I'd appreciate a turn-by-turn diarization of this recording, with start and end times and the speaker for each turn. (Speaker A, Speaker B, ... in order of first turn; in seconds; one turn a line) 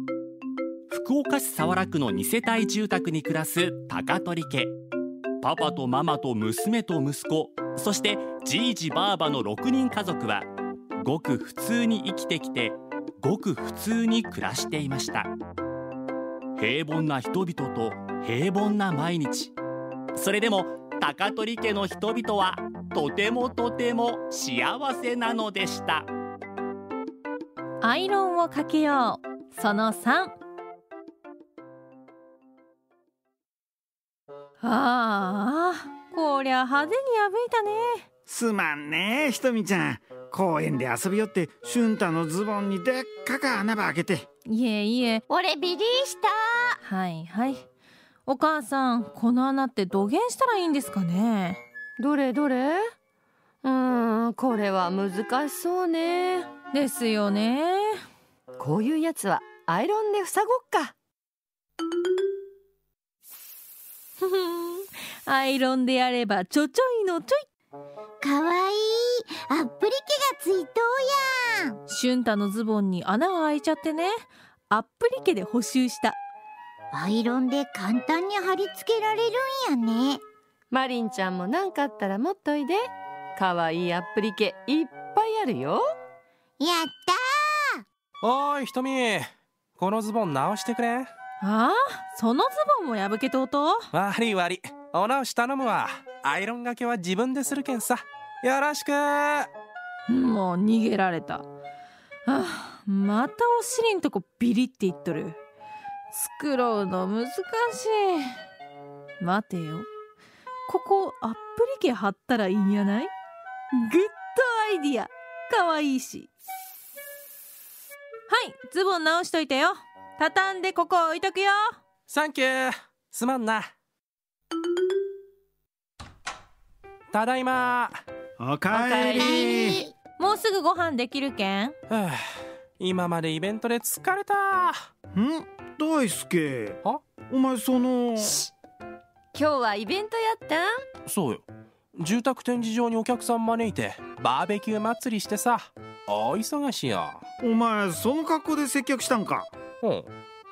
Speaker A: 0.9-4.7
Speaker A: 5.4-10.4
Speaker A: 11.0-15.3
Speaker A: 16.6-19.5
Speaker A: 20.1-26.1
Speaker B: 27.8-30.4
Speaker B: 34.6-38.0
Speaker C: 38.3-44.2
Speaker B: 44.5-45.2
Speaker D: 45.3-46.7
Speaker B: 46.8-47.6
Speaker B: 48.2-51.6
Speaker D: 52.0-52.8
Speaker D: 53.6-56.5
Speaker B: 56.7-58.0
Speaker D: 58.6-60.9
Speaker B: 64.2-67.4
Speaker E: 68.2-71.8
Speaker B: 71.9-76.2
Speaker E: 76.9-80.2
Speaker D: 80.7-85.8
Speaker E: 86.6-87.8
Speaker F: 88.2-91.1
Speaker B: 91.4-93.9
Speaker F: 93.9-99.5
Speaker B: 100.1-101.4
Speaker B: 102.2-105.4
Speaker B: 106.1-108.3
Speaker B: 109.2-109.9
Speaker B: 110.7-113.1
Speaker B: 113.7-116.3
Speaker B: 118.3-121.8
Speaker F: 122.1-123.7
Speaker F: 127.1-128.0
Speaker C: 128.4-129.8
Speaker D: 128.7-129.8
Speaker E: 129.0-129.9
Speaker B: 130.2-131.8
Speaker F: 131.9-132.2
Speaker F: 132.8-134.8
Speaker C: 135.1-138.3
Speaker F: 136.8-137.1
Speaker D: 138.2-138.5
Speaker D: 139.3-140.7
Speaker F: 141.1-147.2
Speaker C: 147.4-149.5
Speaker F: 149.8-150.1